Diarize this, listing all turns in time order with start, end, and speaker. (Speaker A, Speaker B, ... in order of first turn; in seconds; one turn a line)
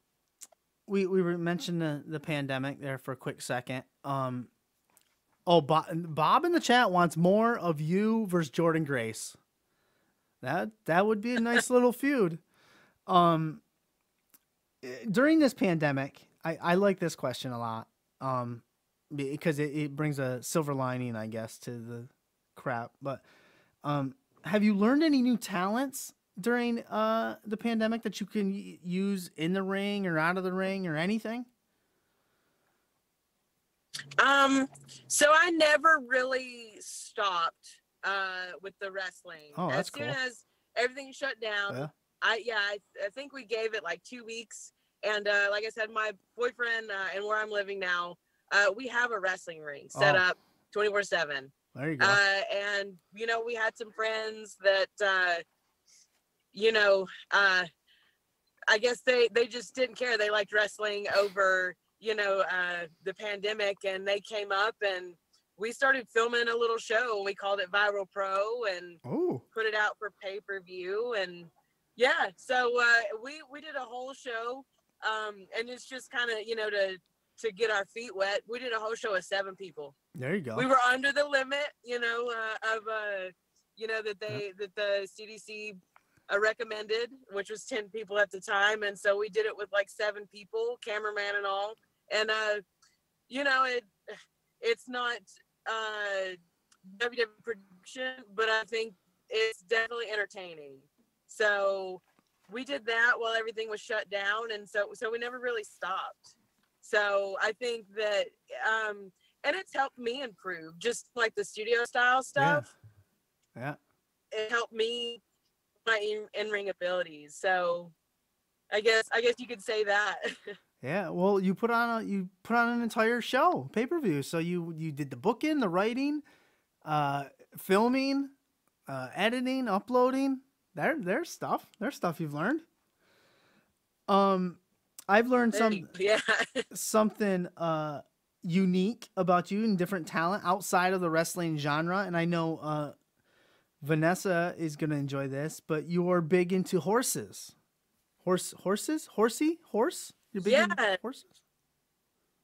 Speaker A: 0.9-4.5
Speaker A: 5.5-9.4
Speaker A: 10.4-12.4
Speaker A: 13.1-13.6
Speaker A: 14.8-23.2
Speaker A: 23.8-31.5
Speaker B: 34.2-55.4
Speaker A: 39.5-40.2
Speaker A: 49.9-50.2
Speaker A: 51.7-52.2
Speaker B: 56.5-57.7
Speaker B: 58.7-69.0
Speaker A: 69.0-69.4
Speaker B: 69.5-80.0
Speaker A: 80.1-80.7
Speaker B: 80.5-92.6
Speaker B: 93.3-93.9
Speaker B: 94.6-112.7
Speaker A: 112.3-112.7
Speaker B: 114.3-115.2
Speaker B: 115.8-117.9
Speaker B: 118.7-120.6
Speaker A: 120.8-126.2
Speaker A: 126.8-128.3
Speaker A: 128.8-132.6
Speaker A: 134.1-135.9
Speaker B: 135.5-136.7
Speaker A: 136.7-142.9
Speaker A: 143.8-147.5
Speaker A: 148.2-151.3
Speaker B: 150.4-151.0